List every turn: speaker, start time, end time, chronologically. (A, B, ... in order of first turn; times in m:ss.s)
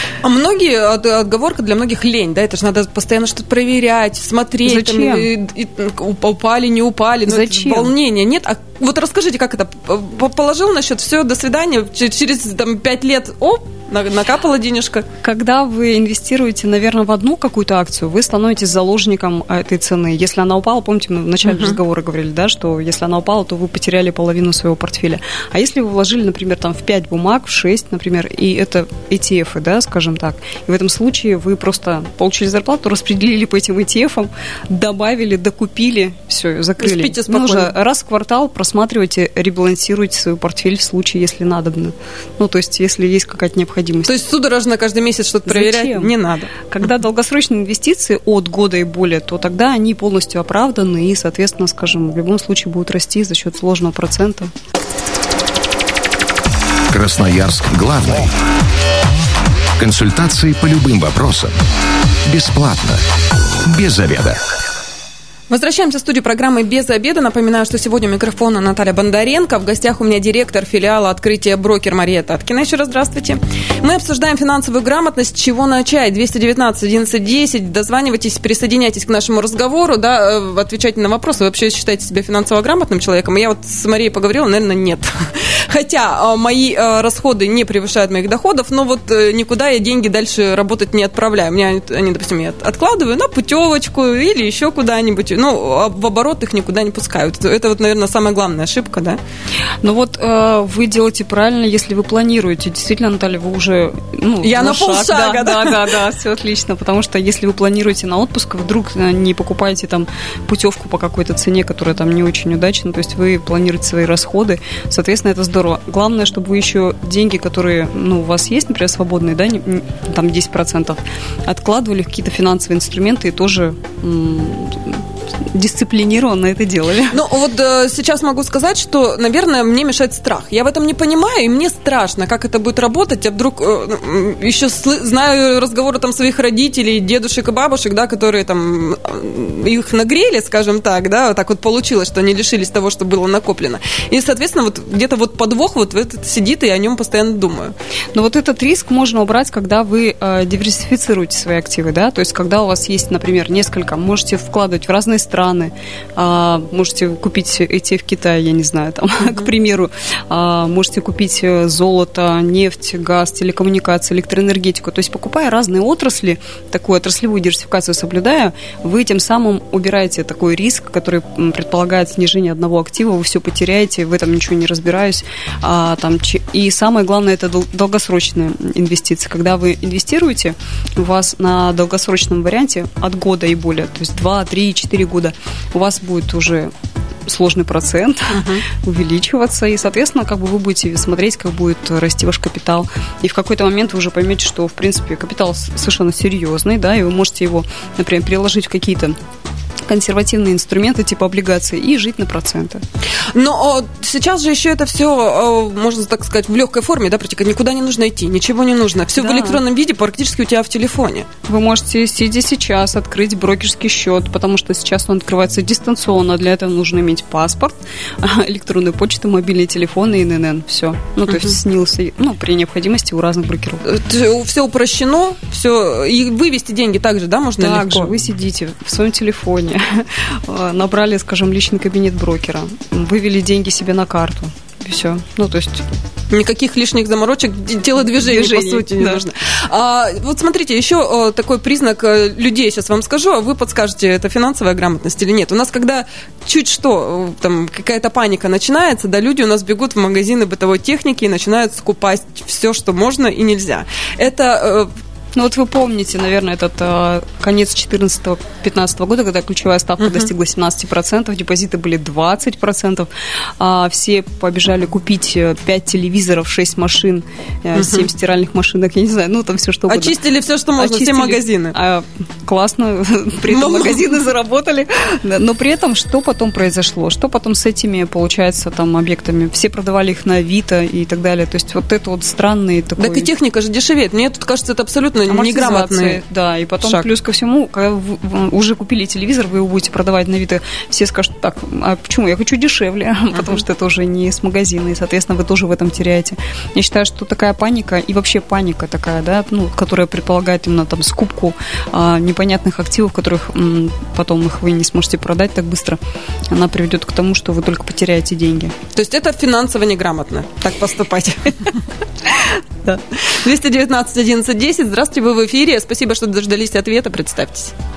0:00.2-0:15.0 A
0:04.6-0:05.3 B
0:07.3-0:07.9 B
0:15.2-0:44.1 B
0:21.4-0:21.8 A
0:36.8-0:37.7 A
0:44.0-0:46.5 A
0:45.4-0:46.1 B
0:46.7-0:54.5 B
0:56.9-0:58.3 C
0:59.8-1:01.5 C
1:02.2-1:03.0 C
1:03.6-1:04.4 C
1:05.5-1:39.2 A
1:39.8-2:07.2 B
1:44.4-1:46.0 A
2:07.1-2:27.7 A
2:28.1-3:06.7 B
3:07.2-3:19.2 B
3:08.3-3:08.6 A
3:19.8-3:22.8 B
3:23.3-3:31.3 A
3:29.2-3:29.6 B
3:31.5-3:43.8 B
3:41.3-3:41.5 A
3:43.8-3:48.1 A
3:47.6-3:55.8 B
3:56.3-4:14.9 A
3:58.0-3:59.2 B
4:15.3-4:30.2 B
4:20.0-4:20.3 A
4:27.8-4:28.0 A
4:29.9-4:31.7 A
4:30.8-4:43.3 B
4:33.5-4:34.2 A
4:43.0-4:46.2 A
4:45.3-5:06.0 B
4:46.8-4:47.0 A
5:06.5-5:08.7 B
5:08.9-5:11.8 A
5:13.3-5:17.7 A